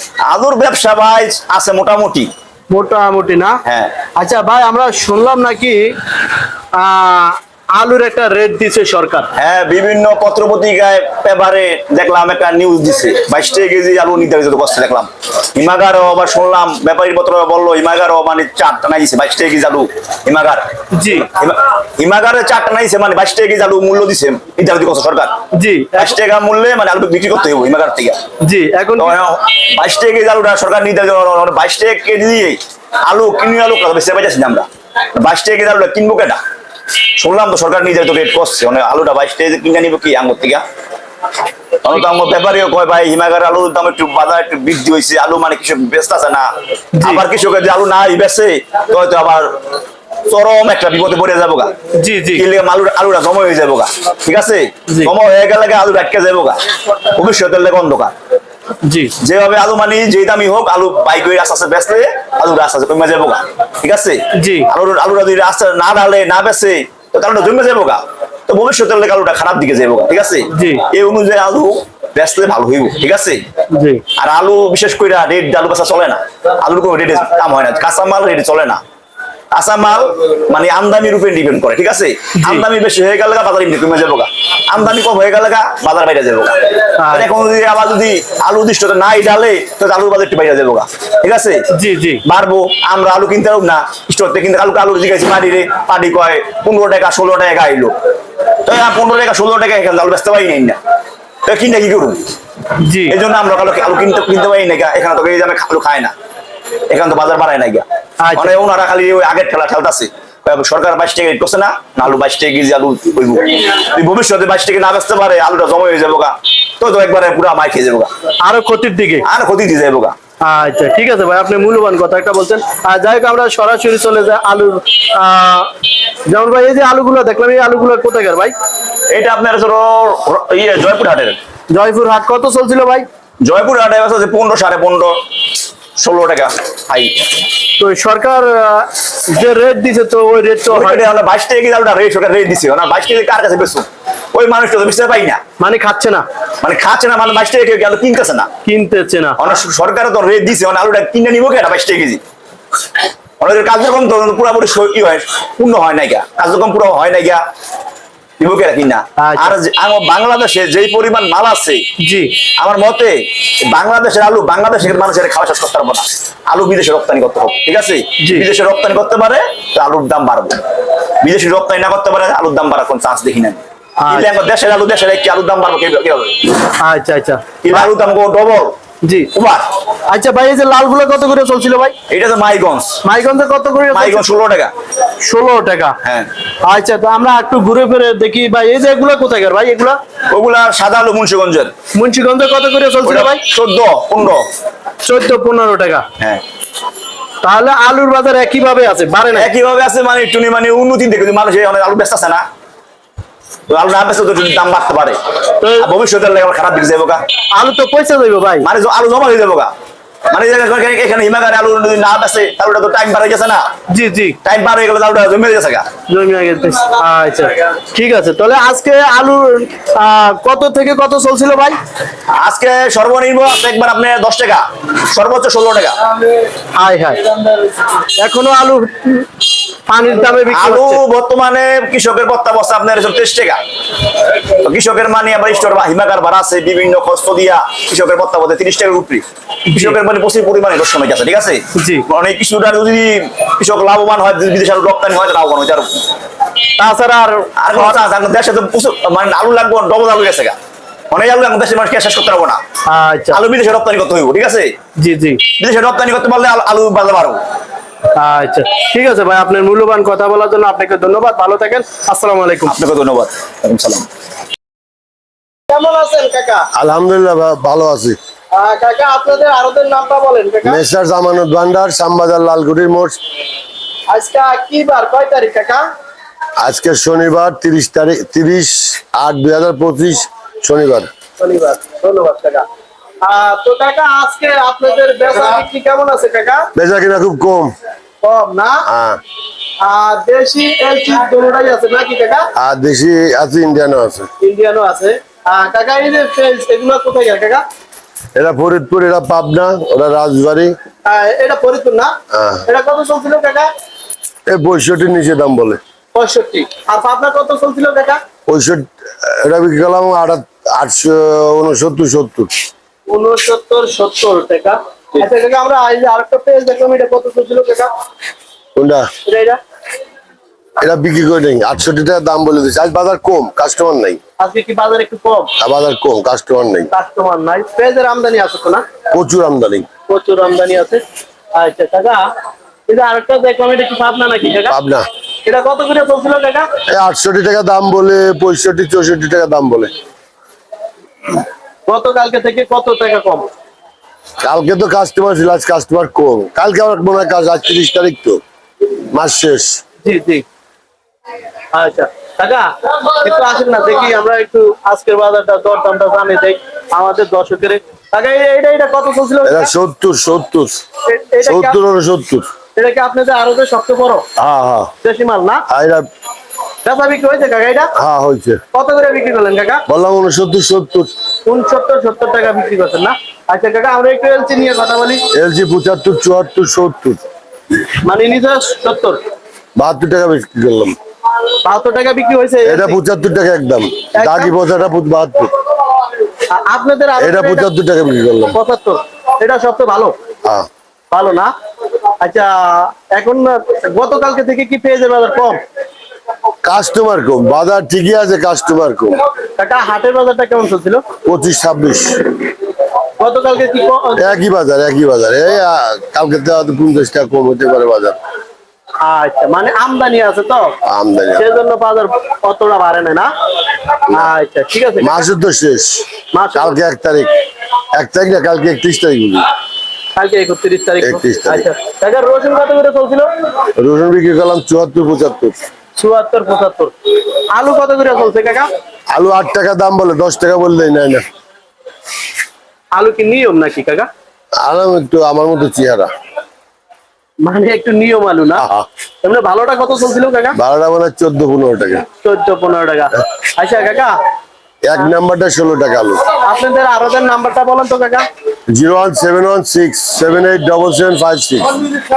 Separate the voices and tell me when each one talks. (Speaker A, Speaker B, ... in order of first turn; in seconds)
Speaker A: 0.2-2.3, 3.6-3.9, 9.4-20.7, 21.2-25.4, 26.0-28.2, 29.0-36.4, 37.2-40.6, 41.8-49.5, 50.3-51.8, 52.3-58.1, 59.2-73.4, 74.2-78.8, 79.5-86.5, 87.1-91.6, 92.3-97.9, 98.7-100.8, 101.5-102.2, 103.1-106.1, 106.9-118.1, 119.2-120.2, 129.1-131.4, 133.4-135.2, 136.0-137.3, 140.7-145.4, 146.6-148.5, 149.4-152.2, 153.4-157.4, 158.4-161.8, 162.6-163.2, 163.7-170.6, 171.2-176.6, 177.6-178.8, 179.3-179.7, 182.1-183.0, 183.9-184.7, 186.0-186.3, 190.3-191.7, 193.1-194.4, 199.3-202.4, 203.7-205.2, 205.8-207.2, 208.6-209.7, 210.3-213.6, 214.4-215.9, 222.3-226.0, 230.3-233.6, 234.5-246.1, 247.6-250.6, 251.1-252.6, 253.3-254.7, 255.6-257.4, 262.7-264.1
Speaker B: 2.7-3.6, 4.2-5.9, 6.7-9.3, 20.9-21.3, 25.5-26.2, 28.4-29.2, 47.0-47.2, 52.0-52.5, 54.9-55.1, 58.8-59.1, 64.3-64.7, 70.5-70.8, 73.7-74.0, 82.4-82.7, 87.0-87.3, 91.7-92.2, 102.8-103.2, 108.2-108.5, 118.4-119.2, 120.4-125.7, 126.3-128.5, 131.7-133.1, 137.8-141.1, 145.6-146.2, 148.7-149.4, 159.2-159.6, 162.0-162.3, 168.2-168.5, 174.0-174.3, 176.8-177.9, 179.0-179.3, 180.1-181.9, 183.0-184.3, 185.2-186.0, 186.6-190.0, 191.9-193.4, 195.0-196.1, 197.4-199.5, 205.6-205.9, 207.6-208.7, 213.9-214.4, 216.1-221.8, 226.7-229.3, 229.9-231.0, 239.7-240.0, 241.8-242.1, 246.8-248.0, 252.9-253.4, 255.0-255.4, 258.2-262.8, 265.7-266.7, 268.5-270.8, 274.1-275.8, 281.4-282.6, 283.2-286.7, 288.2-288.9, 289.8-292.5, 294.4-297.6, 301.1-302.1, 302.7-303.7, 306.1-308.2, 313.1-317.9, 319.3-319.6, 324.4-325.5, 326.9-328.8, 330.1-331.0, 331.5-332.2, 332.9-334.8, 335.4-336.7, 341.9-343.4, 350.0-350.4, 351.7-359.7, 361.1-361.8, 362.8-364.2, 365.0-365.6, 366.9-367.9, 368.7-369.8, 371.5-375.2, 378.0-379.2, 381.6-383.0, 384.1-384.5, 386.5-387.7, 388.5-390.1, 391.1-391.5, 392.2-395.6, 399.6-401.0, 403.2-404.3, 409.0-410.7, 411.4-413.3, 414.1-415.2, 416.3-416.8, 420.2-423.3, 426.0-426.9, 427.5-428.7, 432.9-434.1, 437.4-438.6, 439.2-440.6, 442.2-444.1, 446.4-448.2
Speaker C: 266.7-268.2, 270.6-273.2, 276.6-281.1, 286.8-287.7, 288.9-289.2, 292.6-294.3, 298.4-300.8, 302.3-302.6, 304.5-305.8, 308.5-312.5, 318.8-319.1, 320.8-324.2, 325.6-326.9, 329.1-329.9, 334.7-335.1, 336.9-339.9, 344.4-348.4, 348.9-349.8, 359.5-360.8, 361.4-362.5, 364.4-364.9, 365.7-366.1, 368.0-368.6, 369.9-371.1, 375.3-377.2, 379.8-381.0, 382.6-385.5, 387.2-388.6, 396.6-399.2, 401.2-402.3, 404.2-408.2, 410.9-411.5, 415.0-417.3, 417.9-419.5, 421.0-421.7, 423.8-425.6, 429.1-431.2, 434.6-436.1, 438.6-438.9, 440.6-442.1, 444.8-446.2, 448.7-451.8